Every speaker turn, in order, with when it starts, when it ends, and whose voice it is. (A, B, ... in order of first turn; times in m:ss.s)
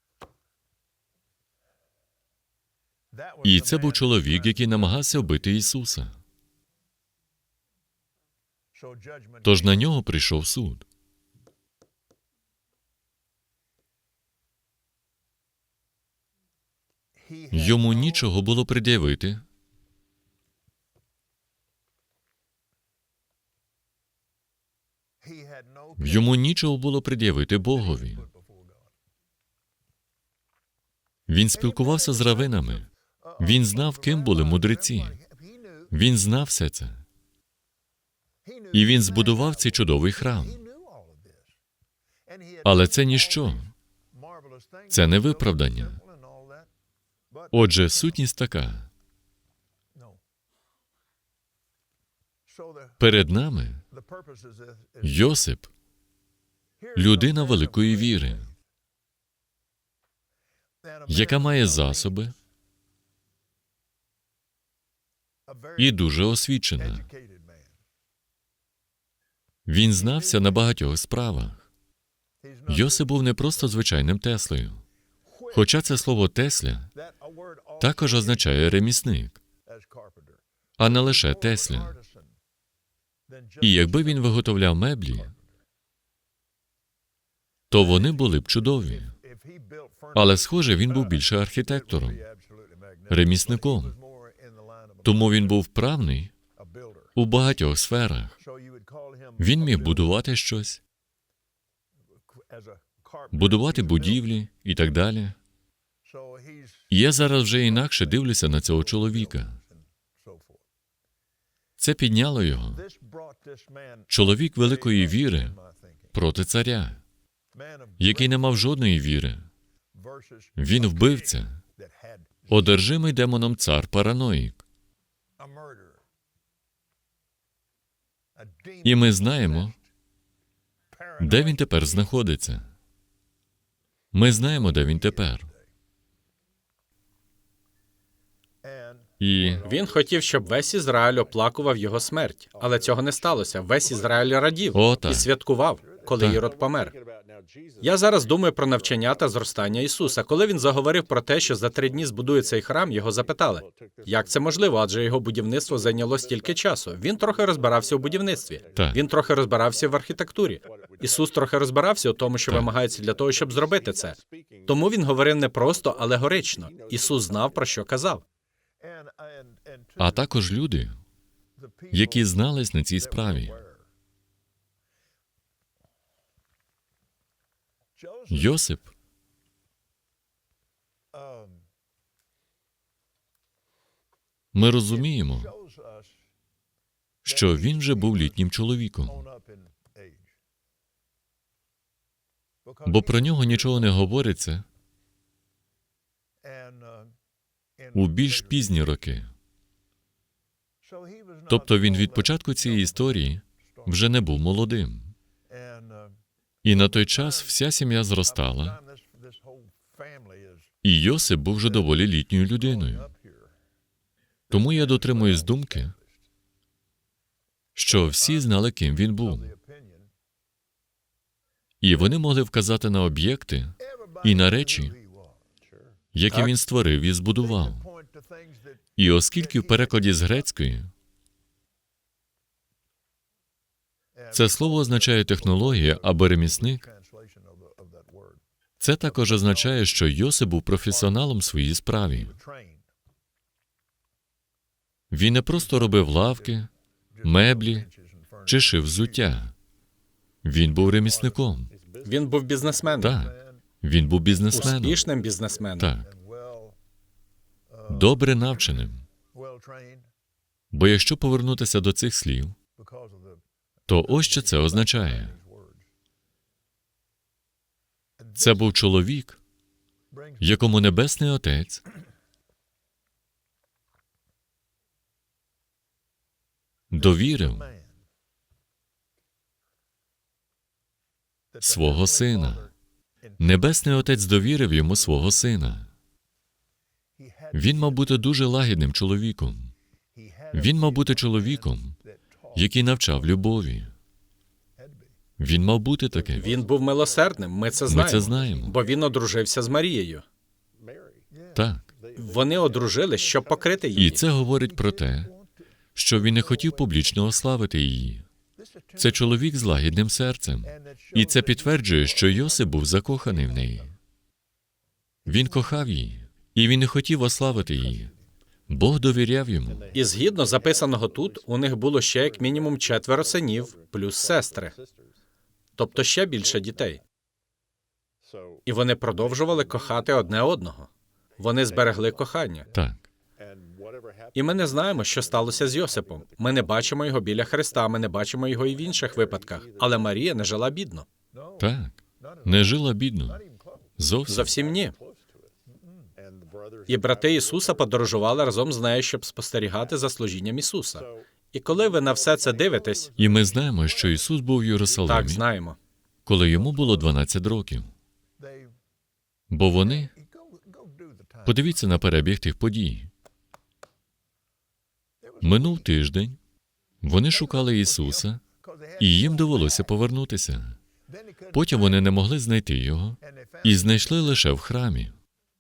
0:03.1-0:05.0 A
0:03.4-0:06.2 B
0:08.7-0:09.8 A
0:09.4-0:10.8 B
0:17.2-0:18.3 A
0:17.5-0:19.4 B
0:25.2-0:26.3 A
0:26.0-0:28.2 B
0:27.7-0:28.9 A
0:31.3-0:32.9 B
0:31.6-0:32.6 A
0:33.2-0:35.9 A
0:33.4-0:35.2 B
0:35.9-0:37.0 B
0:38.4-0:41.6 A
0:38.7-0:40.6 B
0:42.3-0:46.7 A
0:42.6-0:43.7 B
0:44.9-0:46.0 B
0:47.3-0:48.2 A
0:47.5-0:48.9 B
0:49.9-0:50.2 A
0:52.5-0:53.0 A
0:53.0-0:53.8 B
0:53.9-0:55.3 A
0:55.0-0:55.7 B
0:56.8-0:58.6 A
0:57.0-0:58.4 B
1:00.8-1:02.4 A
1:01.1-1:02.3 B
1:05.5-1:06.0 A
1:05.8-1:07.0 B
1:06.8-1:07.8 A
1:09.7-1:11.7 B
1:10.0-1:10.6 A
1:12.4-1:13.1 A
1:12.7-1:14.8 B
1:15.3-1:15.7 A
1:15.5-1:16.9 B
1:17.0-1:18.5 A
1:17.8-1:19.4 B
1:19.7-1:22.3 A
1:20.8-1:21.9 B
1:23.3-1:24.3 A
1:23.6-1:25.3 B
1:27.7-1:29.1 B
1:27.8-1:35.6 A
1:30.1-1:32.2 B
1:33.1-1:33.9 B
1:35.0-1:36.3 B
1:36.6-1:37.1 A
1:37.2-1:38.4 B
1:38.4-1:40.2 A
1:39.4-1:40.8 B
1:42.3-1:44.2 A
1:43.3-1:45.4 B
1:46.0-1:50.6 A
1:46.9-1:49.6 B
1:51.8-1:52.8 B
1:52.7-1:56.2 A
1:54.1-1:55.5 B
1:56.1-1:57.0 B
1:57.5-1:58.5 A
1:58.0-1:59.5 B
2:00.0-2:02.6 A
2:00.6-2:01.6 B
2:02.5-2:04.6 B
2:05.4-2:06.0 A
2:08.4-2:09.8 A
2:08.8-2:09.7 B
2:10.9-2:12.1 A
2:11.2-2:12.7 B
2:14.1-2:15.5 B
2:14.6-2:15.6 A
2:18.6-2:19.6 A
2:19.2-2:19.6 B
2:19.6-2:27.0 C
2:24.7-2:25.3 B
2:27.8-2:48.2 C
2:38.8-2:39.0 B
2:48.8-2:50.3 A
2:50.0-2:51.0 B
2:51.6-2:52.3 A
2:51.9-2:53.6 B
2:53.0-2:53.9 A
2:58.0-2:58.6 A
2:58.3-2:58.9 B
3:01.1-3:01.7 A
3:04.5-3:05.5 B
3:04.9-3:06.2 A
3:07.2-3:09.2 B
3:07.3-3:08.4 A
3:09.1-3:10.3 A
3:12.6-3:13.9 A
3:12.8-3:14.6 B
3:16.4-3:17.2 A
3:17.8-3:18.9 A
3:17.9-3:19.3 B
3:20.8-3:24.0 A
3:21.5-3:25.1 B
3:25.5-3:27.6 A
3:26.6-3:28.8 B
3:28.2-3:30.7 A
3:30.8-3:33.1 B
3:32.6-3:33.5 A
3:34.5-3:35.9 B
3:34.5-3:36.1 A
3:37.8-3:39.5 B
3:39.2-3:40.1 A
3:41.8-3:45.0 B
3:43.8-3:45.4 A
3:46.1-3:47.8 B
3:47.4-3:50.4 A
3:49.0-3:50.9 B
3:54.2-3:58.4 A
3:54.3-3:56.8 B
3:58.8-4:02.3 B
3:59.1-4:00.0 A
4:00.9-4:01.2 A
4:02.1-4:02.8 A
4:05.1-4:06.7 B
4:07.2-4:09.2 A
4:07.2-4:07.9 B
4:08.5-4:09.5 B
4:10.4-4:11.7 B
4:11.1-4:11.3 A
4:12.0-4:13.2 C
4:13.0-4:15.0 B
4:13.0-4:13.6 A
4:14.5-4:15.9 C
4:15.8-4:16.1 B
4:16.0-4:16.8 A
4:17.7-4:18.2 A
4:17.9-4:19.0 B
4:19.3-4:20.1 A
4:20.7-4:22.6 B
4:22.8-4:23.4 A
4:23.9-4:25.4 B
4:24.0-4:25.9 A
4:28.2-4:28.7 A
4:28.4-4:29.4 B
4:30.1-4:30.6 A
4:30.4-4:31.8 B
4:36.9-4:37.7 B
4:36.9-4:38.0 A
4:41.5-4:42.7 A
4:41.6-4:42.7 B
4:43.4-4:45.9 B
4:47.2-4:48.2 A
4:47.5-4:49.7 B
4:50.2-4:52.7 A
4:50.5-4:52.0 B
4:52.5-4:53.9 B
4:54.8-4:55.1 A
4:55.4-4:56.5 B
4:56.4-5:00.2 C
4:57.9-4:58.8 B
4:57.9-4:58.8 A
5:01.3-5:01.6 A
5:01.5-5:01.9 B
5:02.2-5:04.2 C
5:04.0-5:05.3 B
5:04.3-5:05.6 A
5:06.0-5:08.2 B
5:06.2-5:07.2 A
5:08.6-5:09.4 A
5:09.0-5:13.9 B
5:10.6-5:12.7 A
5:13.2-5:13.8 A
5:15.3-5:15.8 A
5:15.3-5:18.1 B
5:17.5-5:18.2 A
5:18.7-5:20.0 B
5:19.9-5:24.7 C
5:25.8-5:27.0 C
5:28.7-5:32.7 C
5:32.7-5:33.0 B
5:34.3-5:41.1 C
5:41.3-5:41.7 A
5:41.6-5:43.4 B
5:42.2-5:43.9 A
5:44.0-5:44.5 B
5:44.3-5:45.0 C
5:45.7-5:46.1 A
5:46.9-5:53.1 C
5:52.8-5:54.2 A
5:53.2-5:55.4 B
5:55.0-5:55.8 C
5:56.3-5:57.9 B
5:58.4-5:58.8 A
5:59.5-6:00.1 B
5:59.8-6:01.8 A
6:01.4-6:03.1 B
6:05.2-6:05.8 A
6:05.4-6:06.4 B
6:07.0-6:08.4 B
6:07.3-6:09.9 A
6:09.0-6:10.8 B
6:11.1-6:12.0 A
6:11.5-6:15.2 B
6:13.2-6:14.4 A